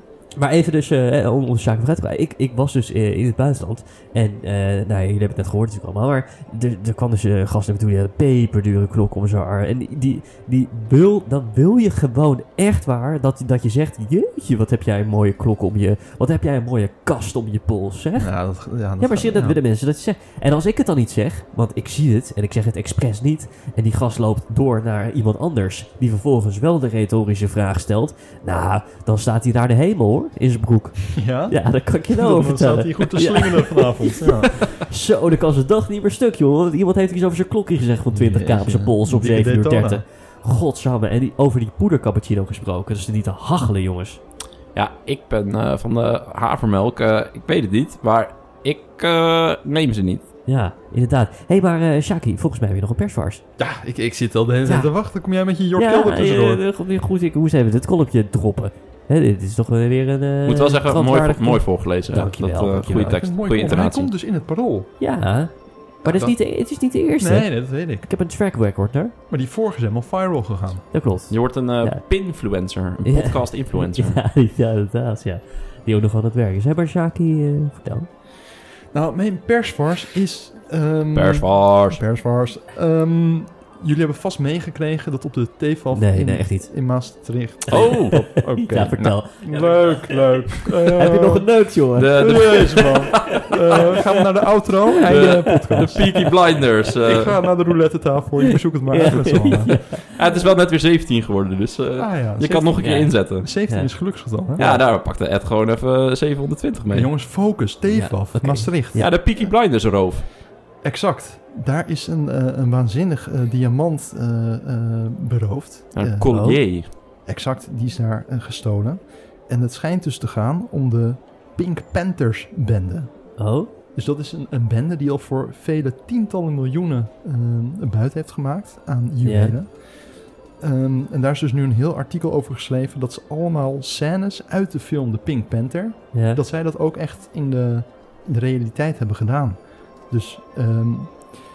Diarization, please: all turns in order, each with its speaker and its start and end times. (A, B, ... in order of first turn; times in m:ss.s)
0:00.4-0:44.2 A
0:18.2-0:19.6 B
0:31.2-0:34.5 B
0:38.1-0:40.0 B
0:44.7-0:50.3 C
0:50.4-0:53.4 A
0:53.6-0:56.6 B
0:54.6-0:54.9 A
0:55.7-1:03.2 A
1:00.4-1:04.1 C
1:02.9-1:04.9 B
1:05.0-1:09.1 A
1:06.0-1:06.5 B
1:07.2-1:08.1 B
1:09.3-1:10.9 B
1:10.9-1:12.0 A
1:11.3-1:14.2 C
1:13.0-1:18.1 A
1:18.9-1:36.3 B
1:21.1-1:22.0 C
1:25.9-1:26.8 A
1:27.7-1:34.0 A
1:27.7-1:28.5 C
1:32.0-1:33.5 C
1:34.9-1:36.6 A
1:35.0-1:37.4 C
1:36.8-1:39.8 B
1:38.9-1:40.0 A
1:39.7-1:43.5 C
1:42.0-1:44.7 B
1:42.8-1:44.8 A
1:44.6-1:47.1 C
1:46.9-1:49.5 B
1:47.9-1:49.2 A
1:48.9-1:50.3 C
1:50.8-2:09.8 B
1:55.9-1:56.9 C
1:56.2-1:56.6 A
2:03.4-2:03.7 A
2:09.2-2:09.6 A
2:10.5-2:21.3 B
2:16.1-2:16.4 A